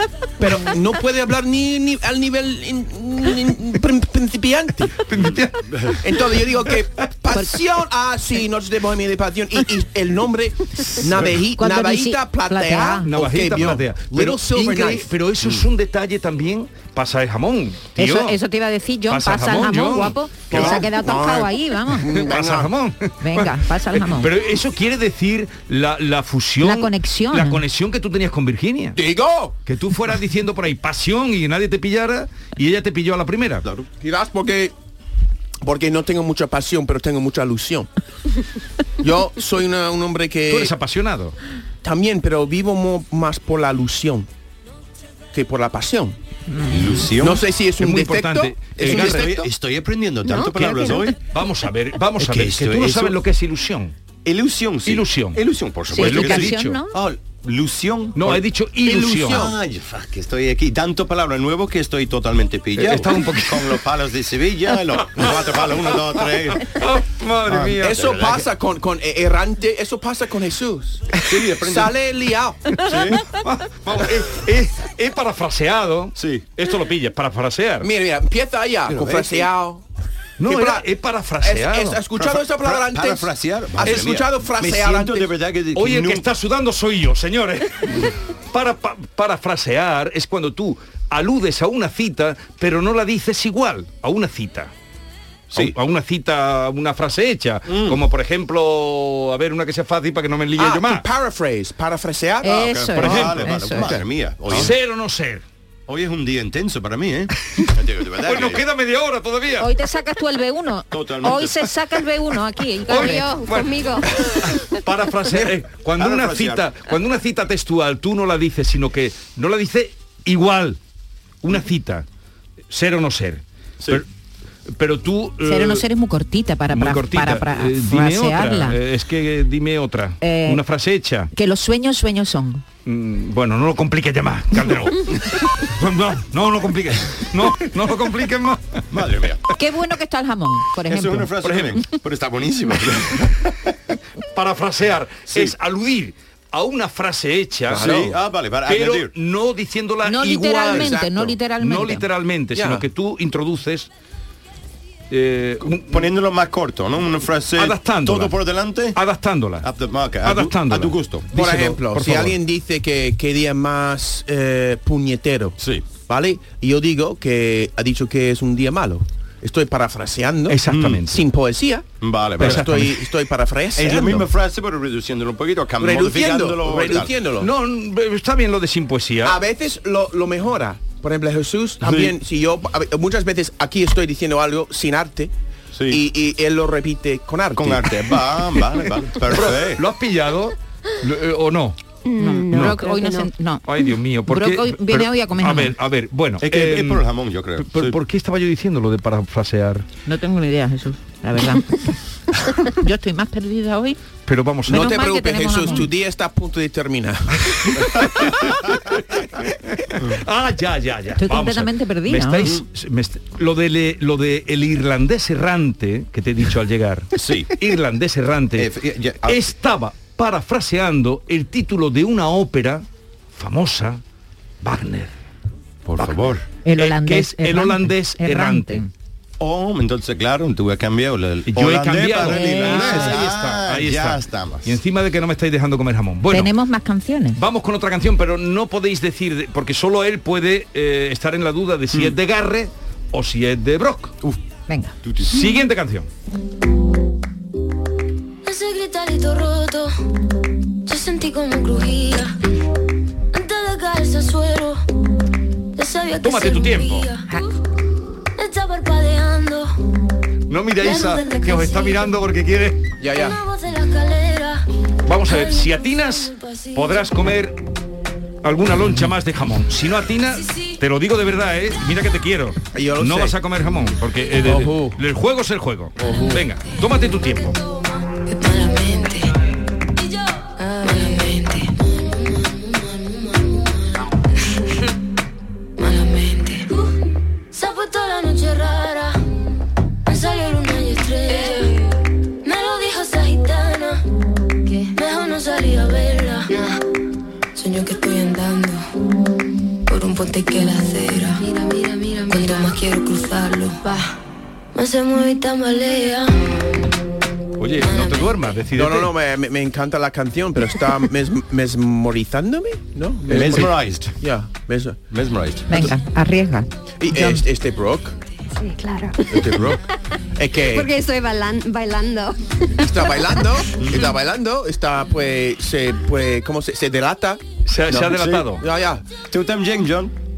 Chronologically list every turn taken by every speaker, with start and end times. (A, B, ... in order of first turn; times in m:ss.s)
0:00.4-0:05.0 A
0:05.1-0:06.0 B
0:06.0-0:15.1 A
0:11.6-0:13.1 C
0:13.0-0:18.4 B
0:18.0-0:22.1 C
0:19.1-0:20.7 B
0:20.5-0:22.7 A
0:22.1-0:29.0 B
0:23.2-0:24.3 C
0:26.6-0:27.6 C
0:29.0-0:29.5 A
0:29.6-0:33.6 B
0:34.0-0:34.7 A
0:35.6-0:37.9 A
0:39.0-0:40.7 A
0:40.5-0:41.3 B
0:41.8-0:44.3 A
0:45.3-0:46.2 A
0:46.5-0:47.0 C
0:46.7-0:47.4 D
0:47.2-0:49.4 A
0:47.8-0:49.4 B
0:48.8-0:51.2 D
0:50.2-0:51.0 E
0:51.3-0:53.9 B
0:52.2-0:53.2 D
0:54.2-1:06.7 D
0:54.8-0:55.4 B
0:55.9-0:57.0 C
0:56.0-0:56.8 B
0:58.2-0:59.5 B
0:58.8-0:59.5 A
1:02.8-1:03.8 B
1:06.6-1:08.0 B
1:07.5-1:08.5 D
1:07.6-1:12.8 A
1:11.3-1:11.9 D
1:12.8-1:13.2 D
1:13.3-1:17.9 B
1:16.2-1:16.5 D
1:17.8-1:19.8 A
1:18.9-1:19.5 D
1:20.4-1:22.0 B
1:20.4-1:20.8 A
1:21.4-1:25.3 A
1:22.3-1:26.2 D
1:25.8-1:34.7 B
1:35.5-1:41.0 B
1:37.7-1:38.0 D
1:40.6-1:43.2 A
1:42.4-1:43.9 C
1:42.6-1:44.7 D
1:43.0-1:43.5 B
1:43.8-1:44.7 A
1:44.5-1:45.4 B
1:45.9-1:48.6 D
1:48.2-1:49.7 B
1:49.6-1:53.3 C
1:50.9-1:51.7 D
1:52.9-1:53.8 B
1:52.9-1:54.1 E
1:54.4-2:00.8 B
1:56.0-1:56.7 D
2:01.4-2:02.0 B
2:02.7-2:04.0 B
2:04.7-2:05.8 B
2:05.4-2:08.8 C
2:06.7-2:11.3 B
2:10.2-2:10.6 C
2:11.3-2:12.6 C
2:12.8-2:18.8 B
2:18.9-2:19.4 D
2:19.5-2:21.3 C
2:20.8-2:23.5 D
2:21.4-2:21.8 B
2:24.3-2:28.1 B
2:25.3-2:25.5 D
2:27.7-2:28.1 A
2:27.7-2:29.1 D
2:28.6-2:31.0 B
2:30.0-2:32.0 C
2:30.4-2:31.4 A
2:31.6-2:33.9 B
2:32.5-2:32.8 A
2:35.1-2:36.1 B
2:35.8-2:39.0 D
2:37.5-2:38.3 B
2:39.0-2:39.6 B
2:39.6-2:41.3 D
2:40.2-2:42.4 B
2:41.3-2:54.3 A
2:45.6-2:45.9 D
2:50.5-2:51.2 B
2:50.7-2:51.0 D
2:52.0-2:52.9 D
2:52.4-2:52.9 B
2:53.8-2:57.1 D
2:55.8-2:57.5 A
2:57.4-2:59.4 B
2:59.2-3:05.3 A
3:01.8-3:02.2 D
3:05.7-3:06.0 D
3:05.9-3:07.9 A
3:07.5-3:09.8 D
3:09.3-3:11.8 B
3:12.0-3:13.3 E
3:12.2-3:13.6 C
3:12.5-3:12.8 B
3:13.6-3:17.0 B
3:14.3-3:15.7 C
3:16.4-3:18.0 D
3:17.6-3:19.8 B
3:20.1-3:21.8 C
3:22.6-3:24.0 C
3:24.2-3:25.0 B
3:24.7-3:27.8 A
3:24.7-3:25.9 C
3:30.0-3:38.7 B
3:31.2-3:32.5 C
3:37.1-3:37.5 D
3:38.6-3:39.5 D
3:39.2-3:44.0 B
3:44.6-3:45.1 B
3:45.8-3:46.4 D
3:46.6-3:48.9 C
3:46.8-3:48.8 B
3:49.4-3:54.8 D
3:51.5-3:56.5 B
3:52.3-3:53.2 C
3:56.3-3:57.4 C
3:57.3-4:04.2 B
4:04.7-4:04.9 C
4:05.2-4:06.1 B
4:08.4-4:09.9 F
4:10.8-4:12.3 F
4:13.3-4:14.8 F
4:15.8-4:17.5 F
4:16.2-4:17.1 B
4:18.4-4:19.8 F
4:20.5-4:22.8 B
4:20.8-4:22.2 F
4:23.0-4:23.4 A
4:23.1-4:24.6 F
4:25.0-4:27.6 B
4:25.2-4:27.3 F
4:28.4-4:37.6 B
4:30.4-4:30.7 F
4:32.7-4:33.4 A
4:34.4-4:35.0 A
4:36.0-4:36.4 A
4:38.1-4:39.3 F
4:40.0-4:43.9 F
4:45.8-4:46.9 F
4:47.5-4:49.2 F
4:50.0-4:51.8 F
4:52.4-4:54.0 F
4:54.6-4:56.7 F
4:57.5-4:58.8 F
4:59.9-5:04.2 F
5:04.7-5:06.6 F
5:07.6-5:09.1 B
5:07.8-5:08.5 F
5:08.7-5:15.0 A
5:13.3-5:14.1 D
5:15.1-5:16.0 D
5:15.7-5:17.4 C
5:17.0-5:18.2 A
5:18.6-5:19.3 E
5:19.3-5:19.8 A
5:20.4-5:20.9 A
5:20.7-5:23.4 E
5:22.8-5:29.0 A
5:23.8-5:24.1 D
5:27.7-5:28.6 B
5:28.1-5:28.5 D
5:29.3-5:30.1 D